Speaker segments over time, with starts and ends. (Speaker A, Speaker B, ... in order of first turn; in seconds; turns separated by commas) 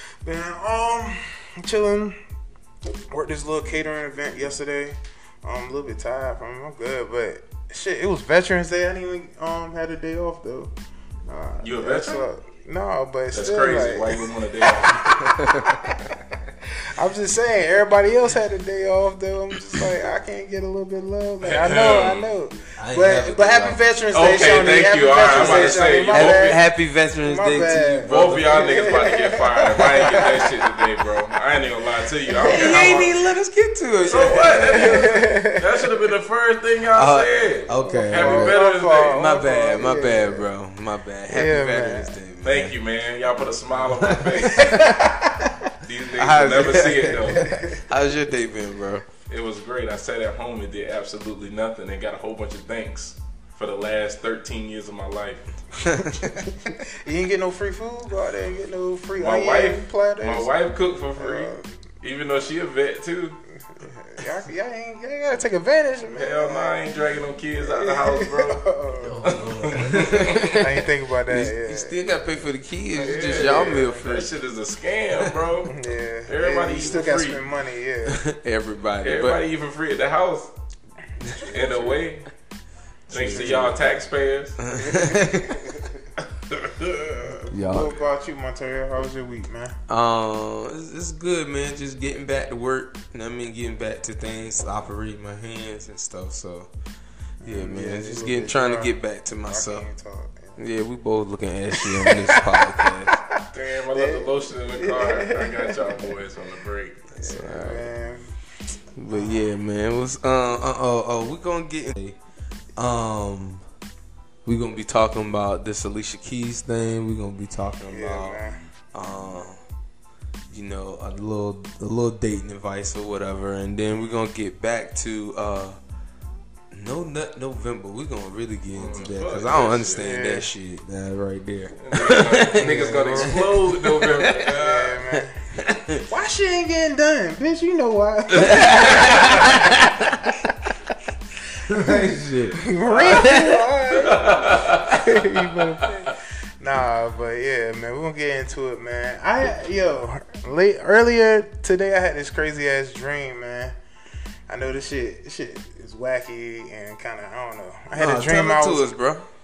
Speaker A: 0.2-2.2, Speaker A: 3.1-10.7, Speaker A: 11.3-16.2, Speaker B: 11.6-12.2, Speaker B: 13.3-15.1, Speaker C: 15.2-15.7, Speaker A: 16.9-26.6, Speaker B: 21.4-22.3, Speaker C: 22.8-23.8, Speaker B: 24.1-26.6, Speaker C: 25.3-28.9, Speaker A: 27.2-30.6, Speaker B: 28.1-33.1, Speaker A: 32.3-32.8, Speaker C: 32.4-35.1, Speaker B: 34.1-39.2, Speaker A: 34.1-35.9, Speaker C: 37.0-38.6, Speaker A: 37.7-40.5, Speaker C: 39.1-42.7, Speaker A: 41.3-42.2, Speaker B: 42.4-44.9, Speaker C: 44.0-45.0, Speaker A: 44.5-45.7, Speaker B: 45.8-47.5, Speaker C: 46.2-49.0, Speaker A: 47.4-47.8, Speaker B: 49.3-55.4, Speaker C: 55.8-56.5, Speaker A: 56.8-60.5, Speaker B: 59.2-63.4, Speaker A: 61.2-61.7, Speaker A: 63.7-66.8, Speaker B: 66.1-68.7, Speaker A: 67.6-69.3, Speaker C: 69.0-74.3, Speaker B: 69.2-70.5, Speaker A: 69.9-72.0, Speaker B: 73.0-77.4, Speaker A: 75.7-78.2, Speaker C: 78.1-79.4, Speaker B: 79.0-80.5, Speaker C: 81.2-81.5, Speaker B: 81.4-82.3, Speaker C: 83.1-83.8, Speaker B: 83.1-84.6, Speaker A: 83.2-83.8, Speaker C: 84.6-85.6, Speaker A: 84.8-86.0, Speaker B: 86.5-87.4, Speaker C: 87.5-87.9, Speaker A: 87.6-89.8, Speaker C: 89.9-96.7, Speaker A: 97.4-100.6, Speaker C: 97.5-99.9, Speaker C: 100.6-103.2, Speaker A: 101.7-103.4, Speaker B: 103.5-107.0, Speaker A: 103.9-106.2, Speaker C: 107.1-107.9, Speaker A: 107.2-108.3, Speaker C: 109.0-112.2, Speaker A: 109.1-109.5, Speaker C: 112.8-113.6, Speaker C: 114.5-118.4, Speaker A: 117.9-118.6, Speaker C: 118.9-119.6, Speaker C: 120.5-125.8, Speaker C: 126.7-134.5, Speaker B: 128.8-130.0, Speaker A: 130.0-130.5, Speaker B: 131.8-135.0, Speaker A: 132.6-133.4, Speaker A: 134.5-135.4, Speaker C: 135.6-136.0, Speaker A: 136.1-139.8, Speaker B: 138.3-139.6, Speaker C: 138.3-140.5, Speaker C: 141.6-143.6, Speaker A: 141.7-153.8, Speaker B: 142.9-143.3, Speaker B: 144.0-145.0, Speaker A: 154.5-158.9, Speaker C: 157.9-159.2